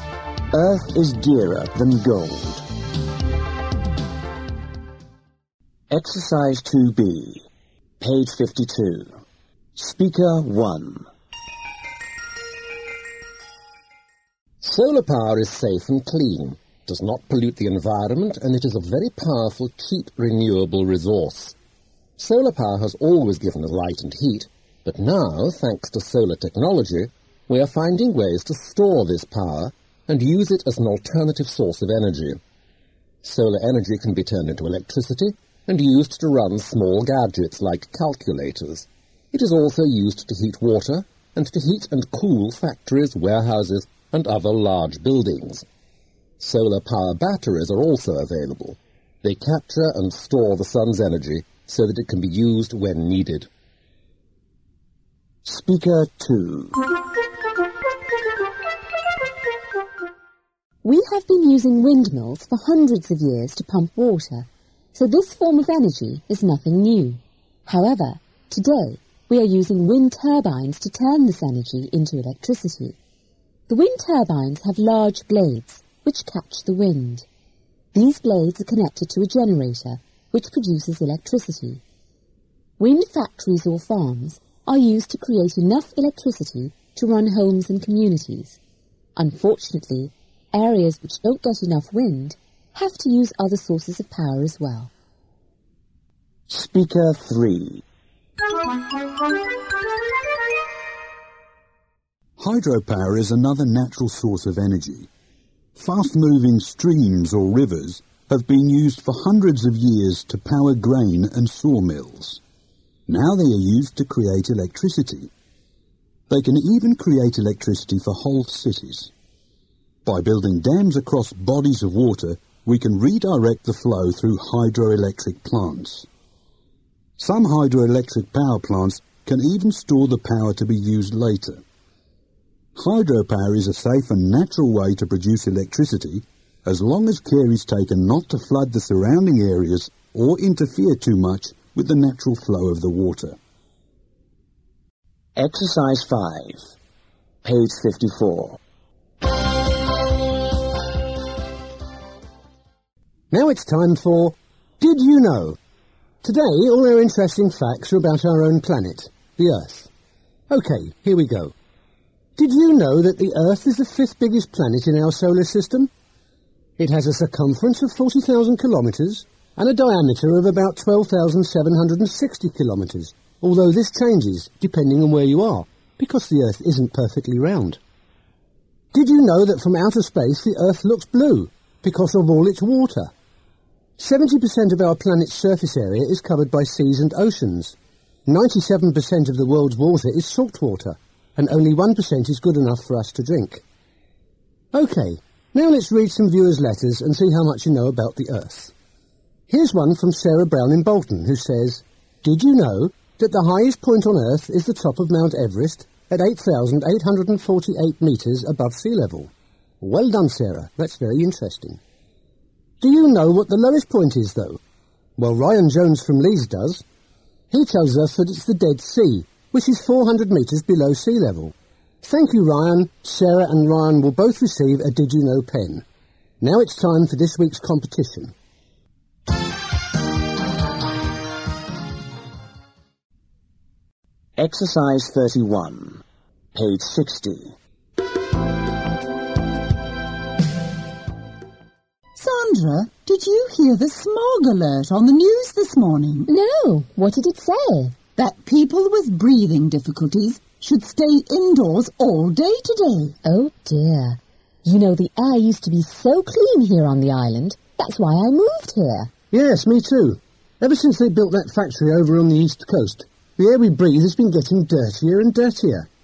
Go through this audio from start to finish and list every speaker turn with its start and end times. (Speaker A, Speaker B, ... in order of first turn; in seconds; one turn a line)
Speaker A: 0.5-2.6
Speaker A: 5.9-7.5
Speaker A: 8.0-9.2
Speaker A: 9.8-11.1
Speaker B: 14.6-21.6
Speaker B: 22.2-32.4
Speaker B: 33.2-45.6
Speaker B: 46.4-53.5
Speaker A: 55.5-56.8
Speaker C: 60.8-73.0
Speaker C: 73.7-77.3
Speaker C: 77.9-81.8
Speaker C: 82.8-88.6
Speaker C: 89.2-94.9
Speaker A: 96.5-97.8
Speaker D: 102.4-105.1
Speaker D: 105.8-112.4
Speaker D: 113.1-115.3
Speaker D: 116.3-119.1
Speaker D: 120.0-126.1
Speaker D: 127.2-131.6
Speaker D: 132.8-143.4
Speaker A: 145.4-146.7
Speaker A: 147.4-148.6
Speaker E: 153.3-155.6
Speaker E: 156.2-159.9
Speaker E: 160.5-161.5
Speaker E: 162.4-165.9
Speaker E: 166.8-177.8
Speaker E: 178.9-183.1
Speaker E: 184.0-193.6
Speaker E: 194.7-198.7
Speaker E: 199.5-211.8
Speaker E: 212.8-214.6
Speaker E: 215.2-216.8
Speaker E: 217.5-225.8
Speaker E: 226.4-228.3
Speaker A: 234.4-236.0
Speaker A: 236.6-237.6
Speaker F: 242.2-246.3
Speaker C: 246.3-248.0
Speaker F: 248.2-253.2
Speaker C: 253.2-259.1
Speaker E: 259.3-265.9